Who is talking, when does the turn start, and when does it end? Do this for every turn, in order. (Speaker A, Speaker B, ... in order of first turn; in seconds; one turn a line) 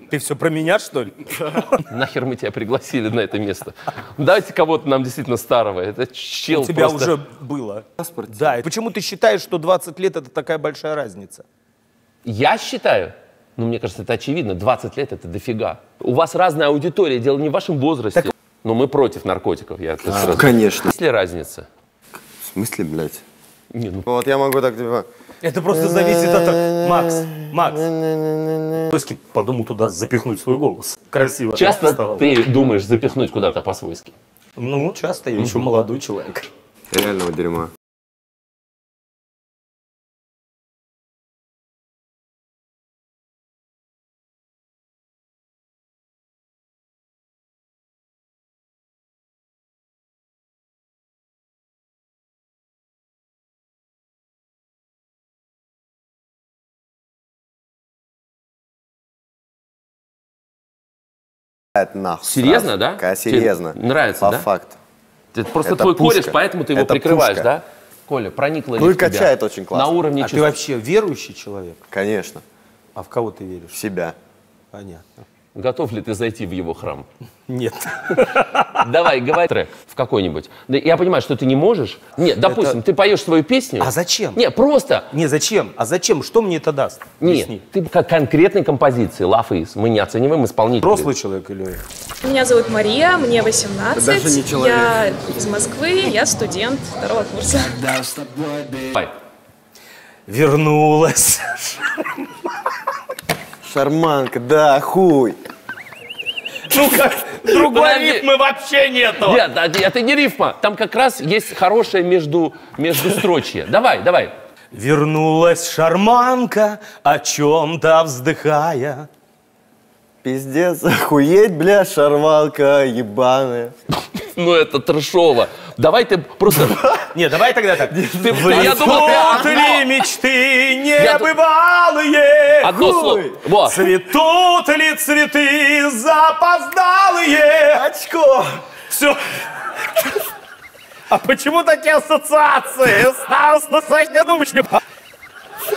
Speaker A: 0.1-1.8
Speaker B: 1.9-7.1
Speaker A: 6.5-11.4
Speaker C: 8.0-8.5
Speaker B: 12.2-21.7
Speaker C: 20.1-20.9
Speaker C: 22.4-23.2
Speaker B: 23.7-24.1
Speaker C: 24.1-25.1
Speaker A: 25.4-27.9
Speaker C: 26.3-28.9
Speaker A: 28.8-32.2
Speaker B: 31.5-34.1
Speaker A: 34.6-36.5
Speaker C: 36.9-37.7
Speaker C: 61.7-64.8
Speaker B: 62.2-64.5
Speaker B: 65.3-70.6
Speaker C: 65.6-67.5
Speaker C: 68.8-69.9
Speaker A: 70.2-71.8
Speaker C: 71.9-72.4
Speaker A: 73.0-73.8
Speaker C: 73.7-74.2
Speaker A: 74.7-75.1
Speaker B: 75.5-77.0
Speaker A: 77.5-78.7
Speaker B: 78.6-85.1
Speaker A: 82.4-82.8
Speaker A: 83.8-84.4
Speaker A: 85.1-87.6
Speaker B: 87.2-91.1
Speaker A: 90.8-91.8
Speaker D: 92.2-98.1
Speaker C: 94.0-95.0
Speaker B: 98.7-99.1
Speaker A: 100.3-102.2
Speaker C: 103.6-105.4
Speaker A: 106.7-109.4
Speaker B: 107.4-108.3
Speaker B: 109.2-114.3
Speaker A: 114.7-119.1
Speaker C: 120.2-123.7
Speaker B: 124.1-126.9
Speaker C: 126.7-127.0
Speaker A: 127.1-132.8
Speaker C: 127.9-129.6
Speaker B: 128.2-129.9
Speaker B: 130.9-131.3
Speaker B: 132.6-133.9
Speaker C: 132.7-133.4
Speaker A: 133.6-137.9
Speaker C: 137.7-138.6
Speaker A: 138.9-139.2
Speaker A: 141.1-144.8